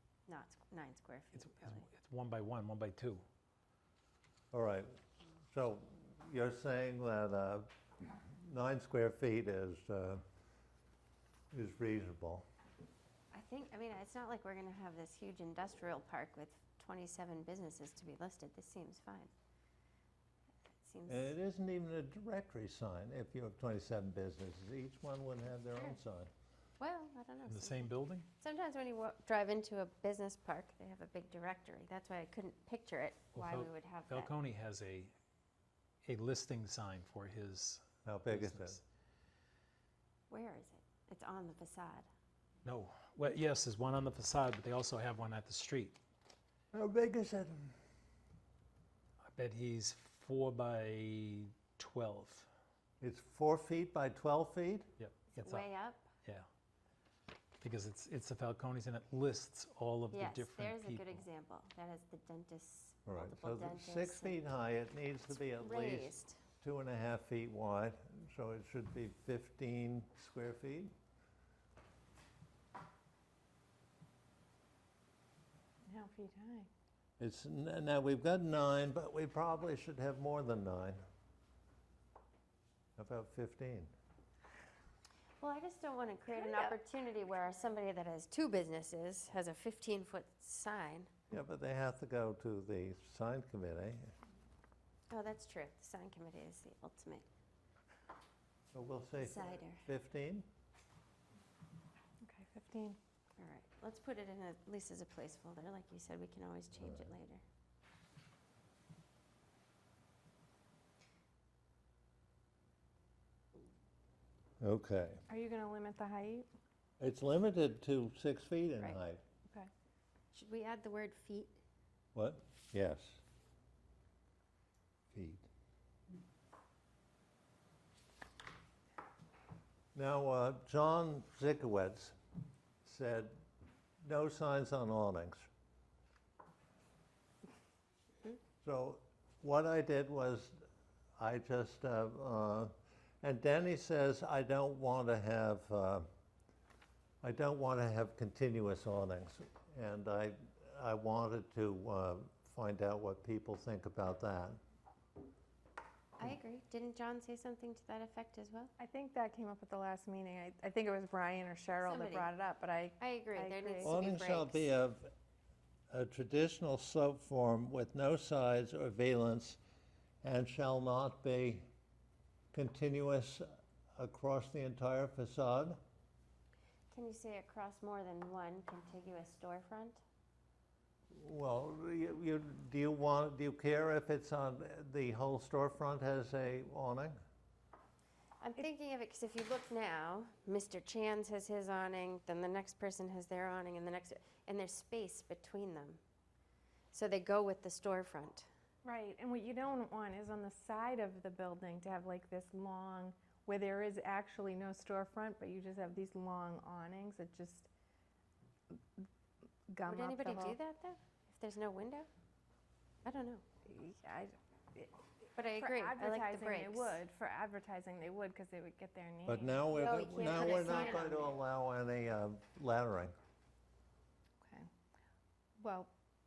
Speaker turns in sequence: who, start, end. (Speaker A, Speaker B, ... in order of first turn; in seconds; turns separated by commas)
Speaker A: 0.3-1.9, Speaker B: 1.4-3.2, Speaker C: 4.5-5.0, Speaker C: 5.5-10.2, Speaker C: 11.5-12.4, Speaker A: 13.3-19.3, Speaker A: 20.8-21.3, Speaker C: 21.1-26.3, Speaker A: 25.7-26.0, Speaker A: 26.8-34.3, Speaker B: 27.5-28.3, Speaker B: 33.3-35.1, Speaker B: 36.0-38.8, Speaker C: 38.0-38.8, Speaker A: 40.3-42.1, Speaker B: 42.6-46.0, Speaker C: 46.7-47.8, Speaker B: 49.2-52.5, Speaker C: 53.0-54.9, Speaker B: 55.0-55.7, Speaker A: 55.3-56.1, Speaker B: 57.6-61.3, Speaker A: 60.1-64.4, Speaker C: 63.1-70.9, Speaker A: 65.4-66.4, Speaker D: 75.9-76.7, Speaker C: 77.2-81.0, Speaker C: 83.0-83.9, Speaker A: 85.4-91.1, Speaker D: 86.3-86.8, Speaker C: 91.3-94.1, Speaker A: 95.1-97.3, Speaker C: 98.7-100.5, Speaker A: 99.2-99.8, Speaker D: 102.2-103.0, Speaker A: 103.4-107.4, Speaker C: 106.7-107.2, Speaker C: 114.6-115.2, Speaker D: 115.3-116.5, Speaker C: 117.0-119.2, Speaker A: 120.3-121.6, Speaker C: 122.2-123.2, Speaker C: 125.1-125.5, Speaker C: 129.9-132.2, Speaker C: 132.8-133.4, Speaker C: 134.0-135.5, Speaker C: 138.6-140.6, Speaker C: 141.2-146.1, Speaker C: 147.2-154.6, Speaker A: 156.2-158.7, Speaker D: 158.8-164.0, Speaker A: 161.8-162.3, Speaker A: 163.0-164.7, Speaker C: 163.8-165.1, Speaker C: 165.9-169.6, Speaker C: 170.2-171.7, Speaker C: 172.5-175.8, Speaker A: 176.9-180.0, Speaker C: 181.1-187.2, Speaker A: 188.4-196.0, Speaker A: 196.9-198.5, Speaker D: 198.8-207.7, Speaker D: 209.7-210.6, Speaker A: 209.9-212.1, Speaker A: 213.1-213.4, Speaker D: 213.7-219.6, Speaker A: 215.4-217.0, Speaker C: 219.3-223.2, Speaker A: 219.8-221.3, Speaker D: 220.2-221.2, Speaker D: 224.4-224.7, Speaker D: 225.6-225.9